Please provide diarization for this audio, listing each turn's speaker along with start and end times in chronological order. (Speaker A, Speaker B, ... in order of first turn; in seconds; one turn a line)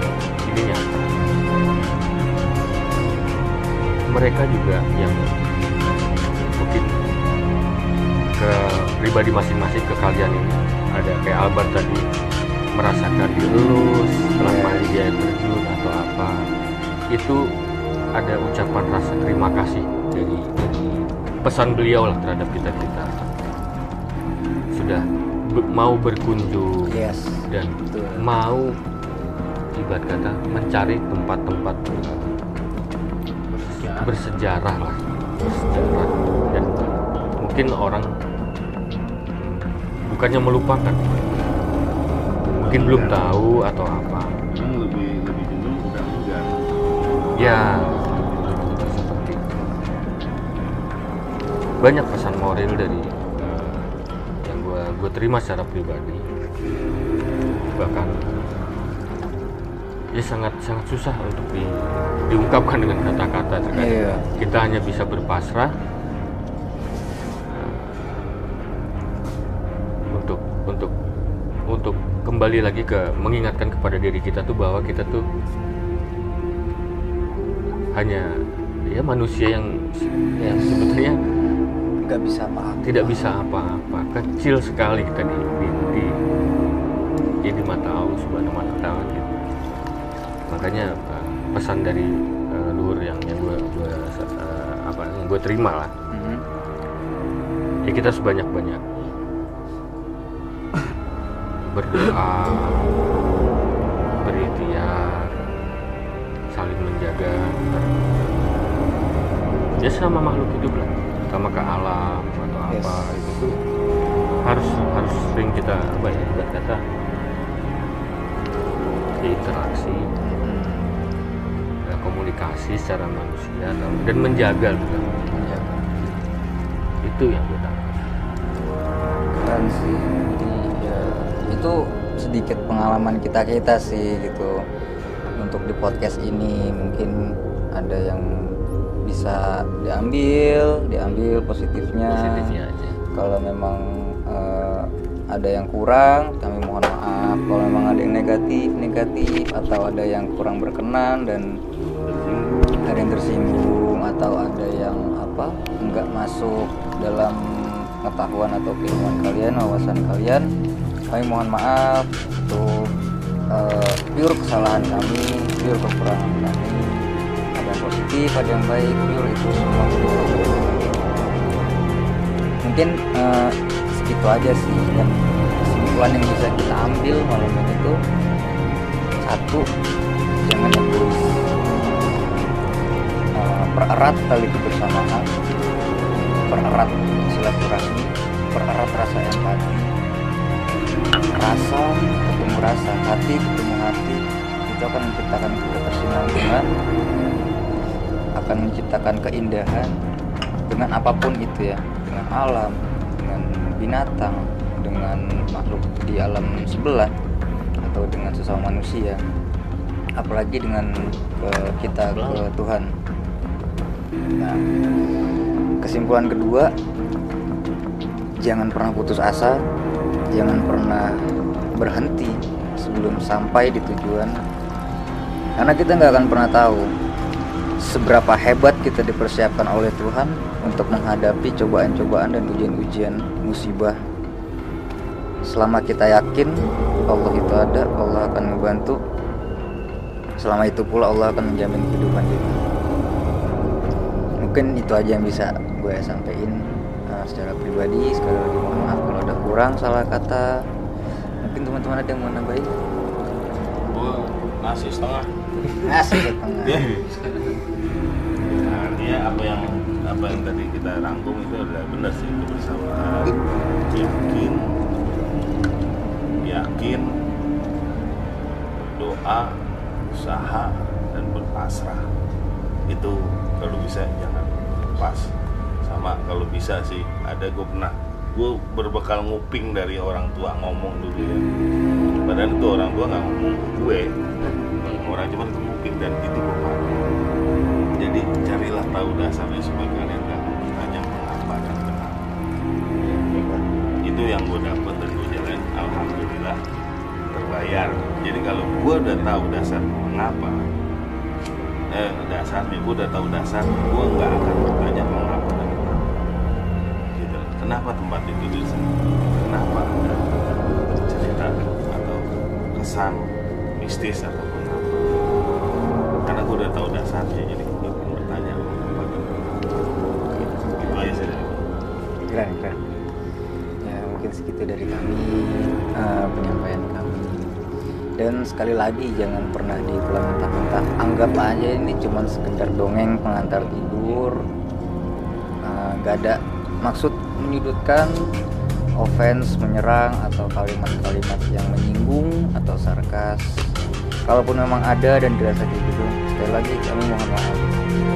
Speaker A: 0.5-1.3
Speaker A: 4.1-6.9
Speaker A: 8.4-12.1
Speaker A: 12.8-16.4
Speaker B: 14.4-15.1
Speaker A: 17.1-17.4
Speaker A: 18.2-23.2
Speaker A: 24.7-27.0
Speaker B: 26.9-28.3
Speaker A: 27.5-28.8
Speaker A: 29.8-32.3
Speaker C: 33.5-34.0
Speaker A: 33.8-38.1
Speaker A: 39.4-41.2
Speaker C: 42.6-43.4
Speaker A: 42.6-44.4
Speaker C: 44.5-46.5
Speaker A: 47.4-49.6
Speaker C: 47.9-48.3
Speaker A: 51.8-53.9
Speaker A: 54.4-56.2
Speaker A: 57.8-58.3
Speaker A: 60.1-65.7
Speaker B: 63.7-64.2
Speaker A: 67.5-68.4
Speaker A: 70.1-70.9
Speaker A: 71.7-75.2
Speaker A: 77.9-78.3
Speaker A: 78.9-79.8
Speaker B: 80.4-81.0
Speaker A: 80.4-81.2
Speaker B: 82.0-83.3
Speaker A: 82.8-86.2
Speaker A: 87.5-89.3
Speaker A: 90.5-95.9
Speaker B: 96.1-96.4
Speaker A: 97.9-98.8
Speaker A: 101.7-102.9
Speaker A: 104.2-105.3
Speaker A: 106.5-107.9
Speaker A: 109.8-113.6
Speaker B: 112.7-113.3
Speaker A: 114.4-116.8
Speaker A: 119.2-120.1
Speaker B: 120.3-120.9
Speaker A: 121.9-125.6
Speaker B: 125.3-126.0
Speaker A: 127.0-128.2
Speaker B: 129.4-134.6
Speaker B: 135.4-137.2
Speaker B: 137.8-142.6
Speaker A: 142.1-143.0
Speaker B: 143.1-151.5
Speaker C: 152.0-153.8
Speaker B: 152.8-160.5
Speaker B: 161.1-162.9
Speaker B: 163.5-170.6
Speaker B: 172.6-178.0
Speaker B: 179.2-179.7
Speaker B: 180.5-181.4
Speaker B: 183.4-185.3
Speaker B: 186.5-189.9
Speaker B: 191.3-196.7
Speaker B: 198.4-200.0
Speaker B: 200.7-207.1
Speaker B: 207.8-209.2
Speaker B: 210.2-212.9
Speaker B: 214.4-214.6
Speaker B: 215.8-216.7
Speaker B: 218.4-219.6
Speaker B: 220.3-221.2
Speaker B: 221.8-224.4
Speaker B: 225.6-226.9
Speaker B: 227.8-234.0
Speaker B: 235.5-239.0
Speaker B: 240.4-242.6
Speaker B: 244.4-250.5
Speaker B: 251.4-252.7
Speaker C: 253.9-255.3
Speaker B: 255.8-256.9
Speaker C: 256.6-257.5
Speaker C: 258.4-264.7
Speaker C: 266.4-267.1
Speaker C: 268.8-269.5
Speaker C: 270.1-272.1
Speaker C: 272.9-275.3
Speaker C: 275.9-281.4
Speaker C: 282.2-284.2
Speaker C: 284.8-287.1
Speaker C: 288.0-292.3
Speaker B: 293.3-293.6
Speaker C: 294.0-296.6
Speaker C: 297.3-300.7
Speaker C: 301.9-306.2
Speaker C: 307.2-313.2
Speaker C: 313.8-315.2
Speaker C: 316.2-319.5
Speaker C: 320.6-321.6
Speaker B: 322.3-322.8
Speaker B: 323.8-327.5
Speaker B: 328.2-334.4
Speaker B: 335.6-338.3
Speaker B: 339.0-343.7
Speaker B: 344.3-347.8